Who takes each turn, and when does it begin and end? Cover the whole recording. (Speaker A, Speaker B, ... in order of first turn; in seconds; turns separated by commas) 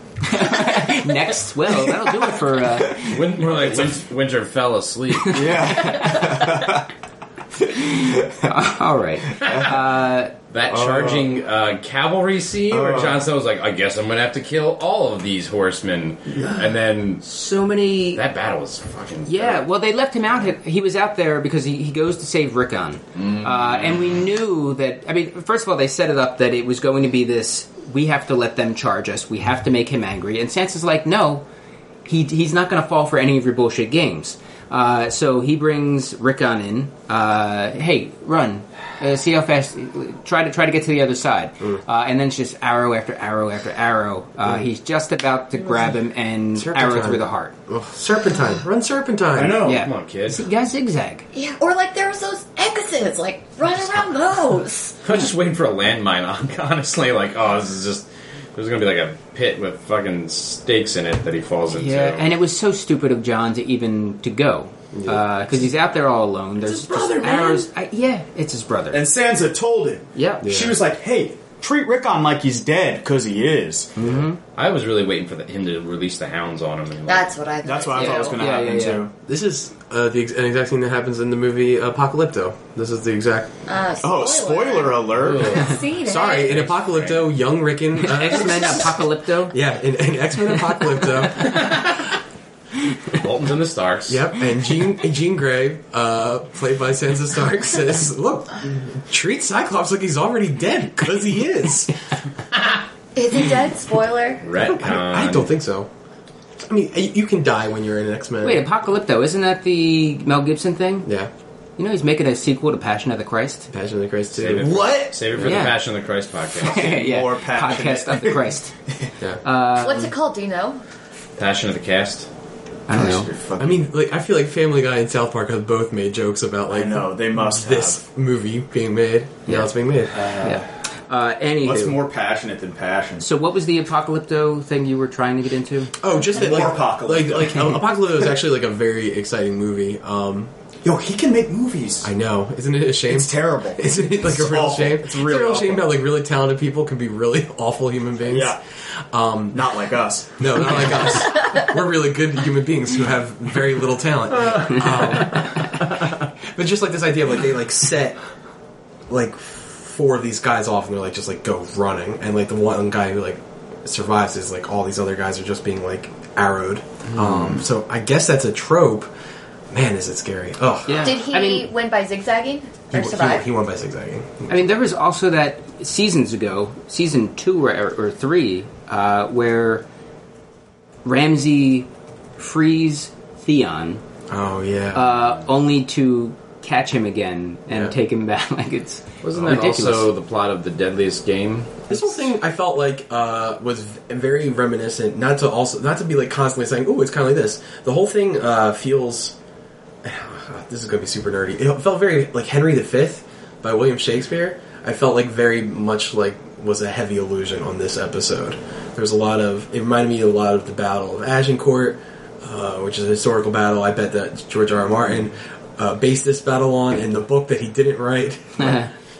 Speaker A: 0.2-3.2, Speaker B: 1.8-2.2, Speaker C: 3.0-5.9, Speaker B: 3.5-3.9, Speaker B: 5.3-6.9, Speaker A: 5.3-6.6, Speaker B: 7.6-8.5, Speaker A: 7.7-10.3, Speaker B: 9.4-9.7, Speaker C: 10.5-17.2, Speaker B: 10.7-11.2, Speaker B: 12.7-13.3, Speaker A: 17.2-18.2, Speaker C: 18.1-19.6, Speaker A: 19.3-31.4, Speaker C: 23.2-24.2, Speaker A: 32.0-47.5, Speaker D: 46.5-49.6, Speaker B: 49.3-49.8, Speaker A: 49.6-51.2, Speaker C: 49.7-50.5, Speaker E: 51.3-55.0, Speaker C: 55.0-62.3, Speaker A: 61.7-69.0, Speaker D: 64.9-65.3, Speaker B: 66.6-67.7, Speaker B: 68.9-73.9, Speaker A: 70.1-70.5, Speaker D: 70.4-70.8, Speaker A: 74.0-74.4, Speaker C: 74.5-77.3, Speaker E: 77.0-78.4, Speaker B: 77.6-79.1, Speaker A: 77.9-79.0, Speaker D: 79.2-83.5, Speaker E: 83.7-86.5, Speaker B: 84.0-85.7, Speaker C: 85.2-87.3, Speaker D: 86.0-89.0, Speaker A: 88.0-89.6, Speaker D: 89.5-91.9, Speaker C: 91.5-92.1, Speaker C: 93.1-94.3, Speaker D: 94.1-101.9, Speaker E: 103.1-104.4, Speaker C: 104.4-105.5, Speaker D: 104.6-105.9, Speaker D: 106.6-108.6, Speaker A: 108.4-111.1, Speaker D: 111.0-111.3, Speaker A: 111.8-113.7, Speaker D: 113.7-114.8, Speaker C: 114.4-116.9, Speaker B: 114.6-115.2, Speaker A: 115.4-115.8, Speaker A: 116.6-118.7, Speaker B: 116.7-118.4, Speaker A: 119.4-120.1, Speaker E: 119.8-120.8, Speaker C: 121.4-122.3, Speaker A: 122.9-123.3, Speaker B: 122.9-123.9, Speaker D: 123.6-130.4, Speaker B: 126.7-128.0, Speaker B: 130.2-130.6, Speaker A: 130.4-132.0, Speaker B: 131.6-133.3, Speaker A: 133.2-135.9, Speaker D: 136.0-140.5, Speaker B: 136.2-137.8, Speaker B: 140.8-142.1, Speaker D: 142.0-155.9, Speaker B: 143.1-145.9, Speaker B: 148.3-148.6, Speaker B: 149.5-150.9, Speaker D: 156.4-158.2, Speaker D: 159.1-169.1, Speaker D: 169.7-171.2, Speaker A: 170.9-171.7, Speaker E: 171.0-173.4, Speaker D: 172.9-174.6, Speaker A: 174.5-179.8, Speaker A: 181.0-184.0, Speaker D: 184.3-185.1, Speaker A: 184.9-190.1, Speaker D: 187.7-187.9, Speaker C: 189.2-192.2, Speaker D: 191.9-199.4, Speaker D: 200.0-218.8, Speaker A: 218.6-218.9